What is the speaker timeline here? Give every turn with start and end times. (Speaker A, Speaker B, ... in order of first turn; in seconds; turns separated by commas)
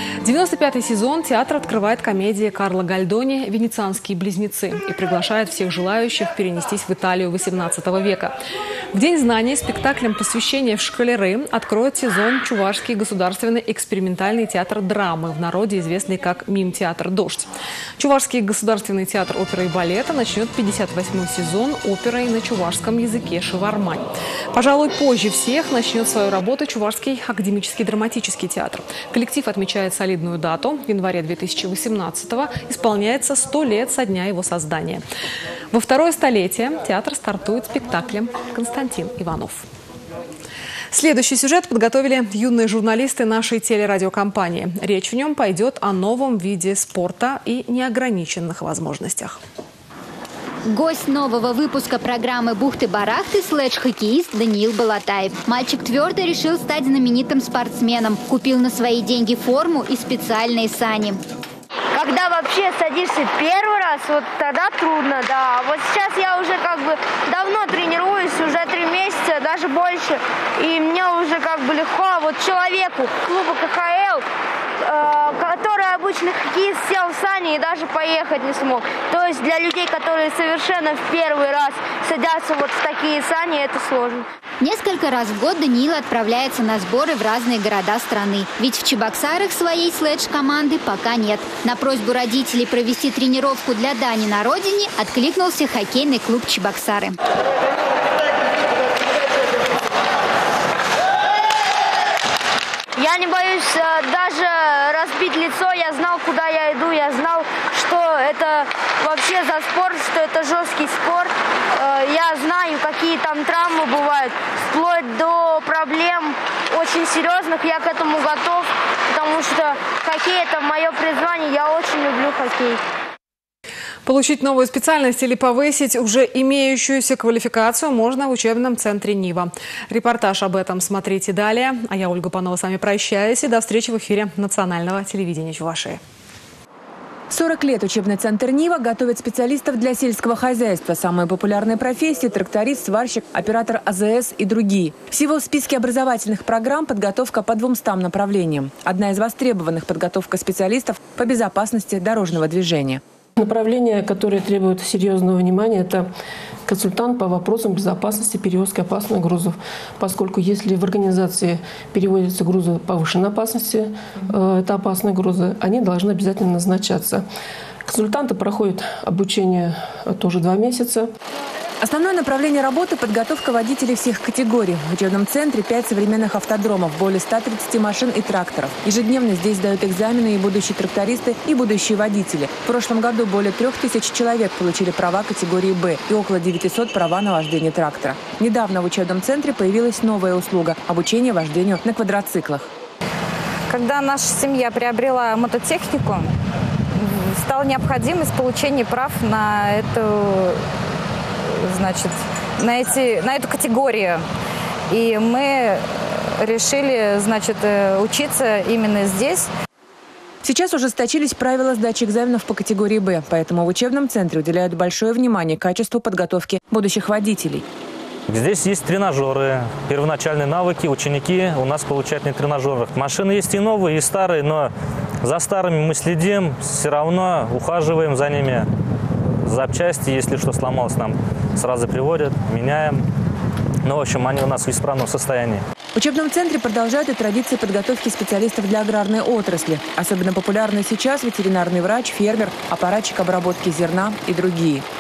Speaker A: 0.2-8.4, Speaker A: 8.9-35.0, Speaker A: 35.7-39.6, Speaker A: 40.9-49.4, Speaker B: 50.7-61.2, Speaker C: 61.9-74.2, Speaker C: 74.8-84.3, Speaker B: 84.6-97.2, Speaker C: 103.0-122.8, Speaker A: 124.0-136.0, Speaker D: 137.3-153.0, Speaker E: 153.4-156.1, Speaker E: 156.7-167.2, Speaker E: 167.9-171.1, Speaker D: 171.8-192.7, Speaker F: 193.7-196.3, Speaker F: 197.0-200.6, Speaker F: 201.6-204.2, Speaker F: 204.9-209.5, Speaker D: 210.4-217.6, Speaker G: 218.3-224.7, Speaker G: 225.2-228.7, Speaker G: 229.4-233.0, Speaker G: 233.8-235.6, Speaker D: 235.9-244.8